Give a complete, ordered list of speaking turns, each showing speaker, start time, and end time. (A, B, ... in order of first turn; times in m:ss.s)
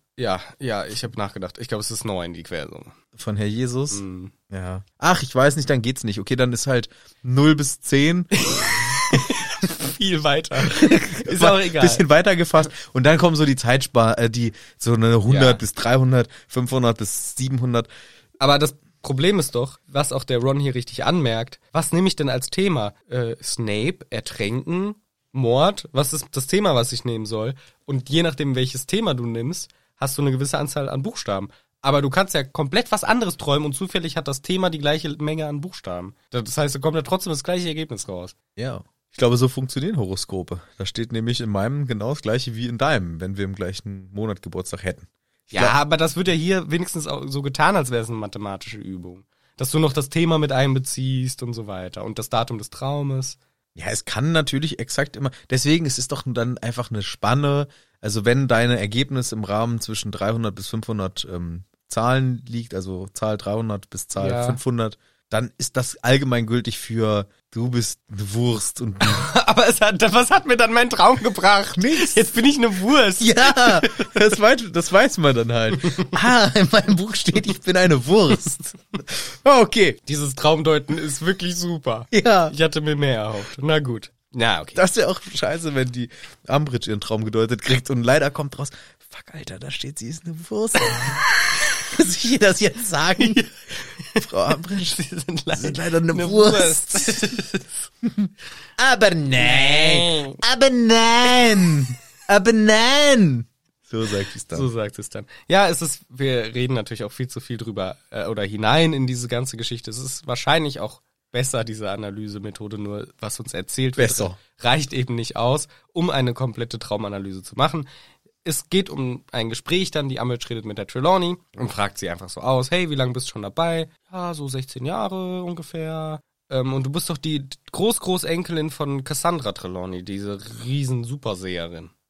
0:00.2-0:02.9 A
0:03.2-0:08.4 B
0:03.9-0:04.3 A
0:08.3-0:12.0 A
0:10.6-0:17.9 B
0:15.3-0:15.6 A
0:18.4-0:38.3 A
0:38.6-0:45.8 B
0:45.5-0:53.4 A
0:53.8-1:09.3 B
1:04.2-1:04.6 A
1:09.0-1:14.3 A
1:11.8-1:12.3 B
1:13.2-1:20.0 B
1:15.8-1:16.2 A
1:20.1-1:24.8 A
1:22.1-1:22.5 B
1:24.8-1:33.4 B
1:30.9-1:31.6 A
1:33.2-1:37.8 A
1:34.2-1:35.0 B
1:35.5-1:37.3 B
1:38.0-1:44.7 B
1:39.4-1:40.4 A
1:44.5-1:57.9 A
1:54.0-1:54.4 B
1:58.4-2:11.9 A